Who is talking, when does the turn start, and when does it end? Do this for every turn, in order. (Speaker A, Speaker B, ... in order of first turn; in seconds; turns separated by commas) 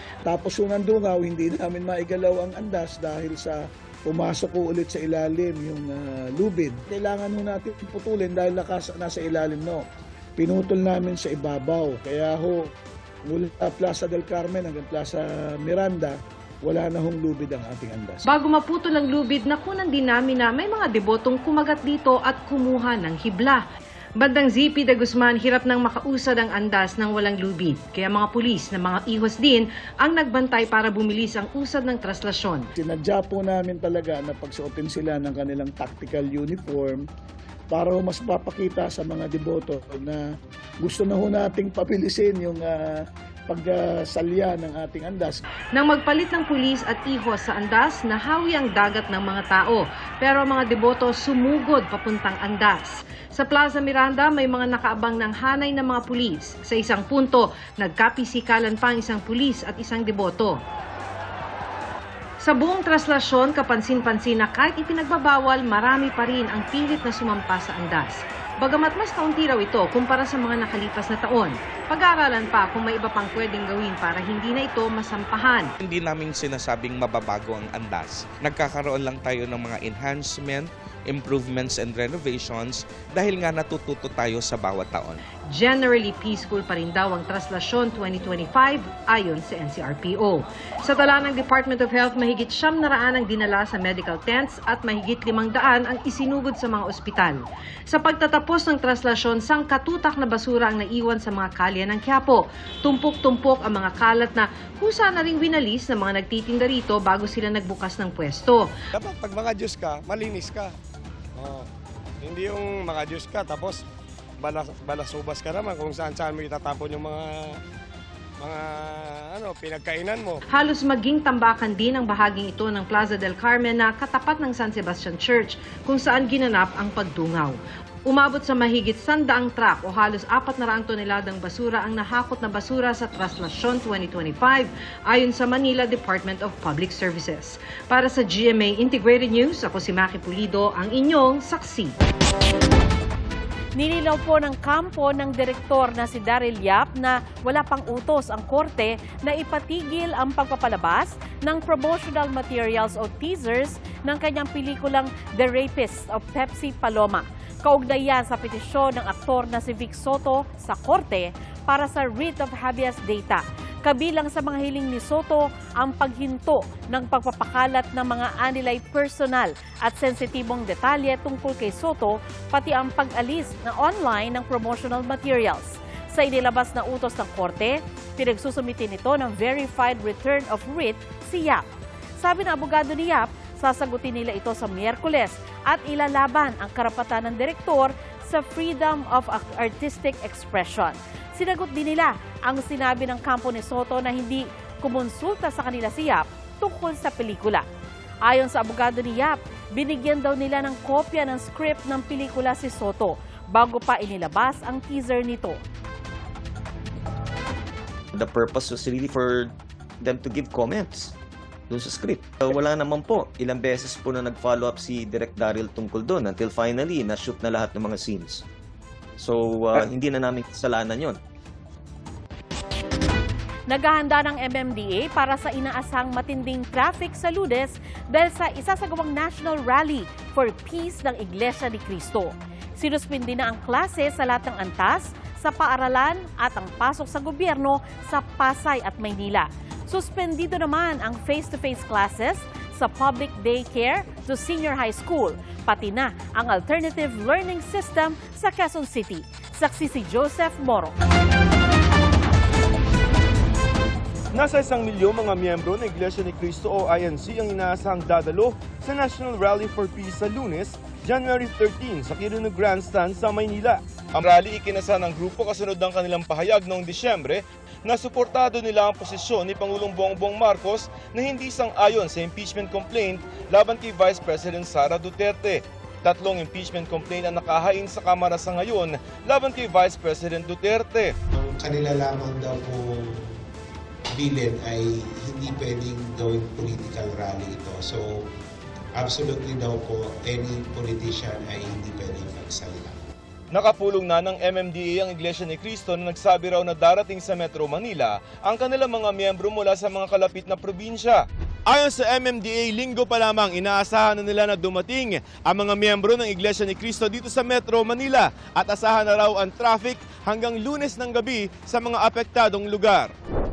Speaker A: 0.2-9.8, Speaker A: 10.4-12.7, Speaker A: 13.3-18.2, Speaker B: 18.3-23.6, Speaker B: 24.2-32.7, Speaker A: 32.8-37.0, Speaker A: 37.7-40.2, Speaker A: 40.8-42.7, Speaker A: 43.5-45.4, Speaker B: 45.7-60.6, Speaker B: 62.4-75.7, Speaker C: 75.8-85.2, Speaker B: 85.5-108.7, Speaker D: 108.9-110.7, Speaker D: 111.4-111.7, Speaker D: 112.2-113.8, Speaker D: 114.4-117.5, Speaker D: 118.4-120.4, Speaker B: 120.5-141.9, Speaker E: 143.8-181.6, Speaker E: 182.2-197.6, Speaker E: 198.2-205.6, Speaker F: 208.1-211.1, Speaker F: 211.7-218.4, Speaker F: 219.2-221.2, Speaker E: 223.7-250.9, Speaker G: 254.3-281.1, Speaker H: 281.3-283.3, Speaker H: 284.1-288.2, Speaker H: 289.0-292.9, Speaker G: 293.5-313.1